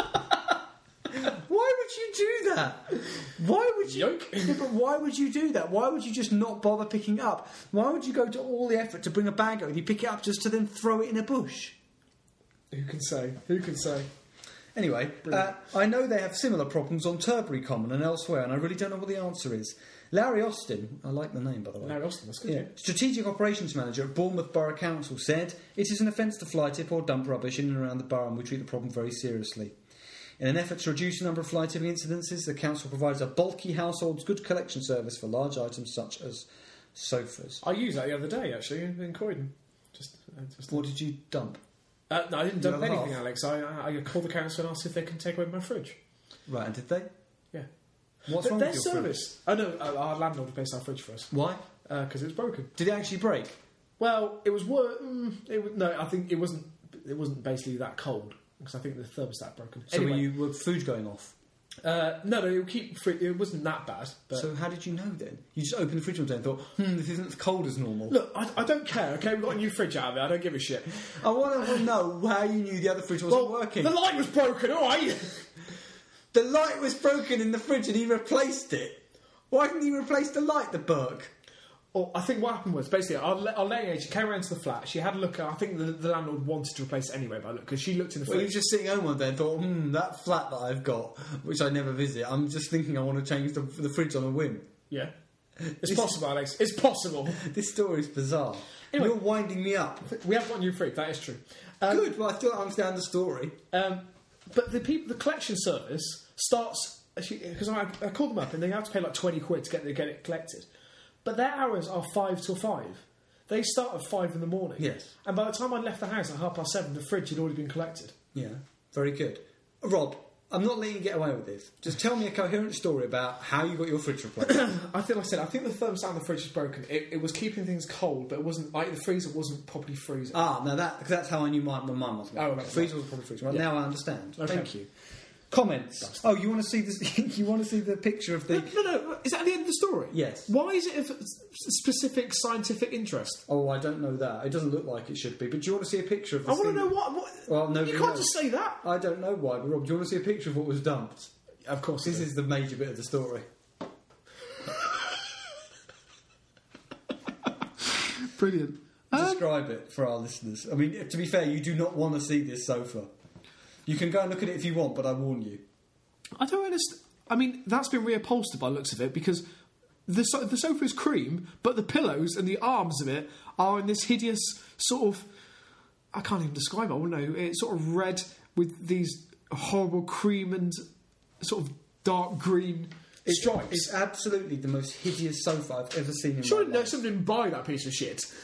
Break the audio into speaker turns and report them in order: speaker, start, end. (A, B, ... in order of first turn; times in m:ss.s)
0:01.1-0:11.8 A
0:03.9-0:04.6 B
0:12.7-0:14.1 B
0:14.8-0:29.8 A
0:21.8-0:22.7 B
0:30.4-0:37.6 A
0:37.6-0:40.8 B
0:40.7-0:41.6 A
0:42.1-0:46.0 B
0:42.6-0:43.2 A
0:46.5-0:47.1 A
0:48.3-0:49.2 A
0:48.3-0:51.3 B
0:51.3-0:51.6 A
0:51.8-0:52.7 B
0:52.8-0:53.6 A
0:54.0-1:00.3 B
0:59.9-1:01.4 A
1:01.8-1:04.5 B
1:04.3-1:08.2 A
1:08.1-1:11.2 B
1:11.0-1:13.9 A
1:13.3-1:15.5 B
1:16.3-1:21.3 A
1:21.9-1:28.6 B
1:28.3-1:34.7 A
1:35.7-1:36.2 A
1:35.8-1:37.4 B
1:37.3-1:40.1 A
1:40.0-1:42.1 B
1:41.9-1:43.6 A
1:43.7-1:50.7 B
1:51.2-1:58.2 B
1:54.8-1:55.1 A
1:58.3-2:04.6 A
2:04.4-2:10.4 B
2:10.3-2:14.9 A
2:12.4-2:12.9 B
2:14.4-2:14.8 B
2:15.5-2:18.7 A
2:18.5-2:23.4 B
2:20.1-2:20.5 A
2:23.5-2:26.9 A
2:26.5-2:28.8 B
2:27.5-2:31.3 A
2:31.6-2:32.3 B
2:32.0-2:33.5 A
2:38.1-2:39.4 B
2:39.1-2:43.1 A
2:43.9-2:45.6 A
2:46.4-2:49.4 B
2:50.1-2:55.3 B
2:56.1-3:00.8 B
3:01.4-3:03.9 B
3:03.3-3:07.0 A
3:06.4-3:08.3 B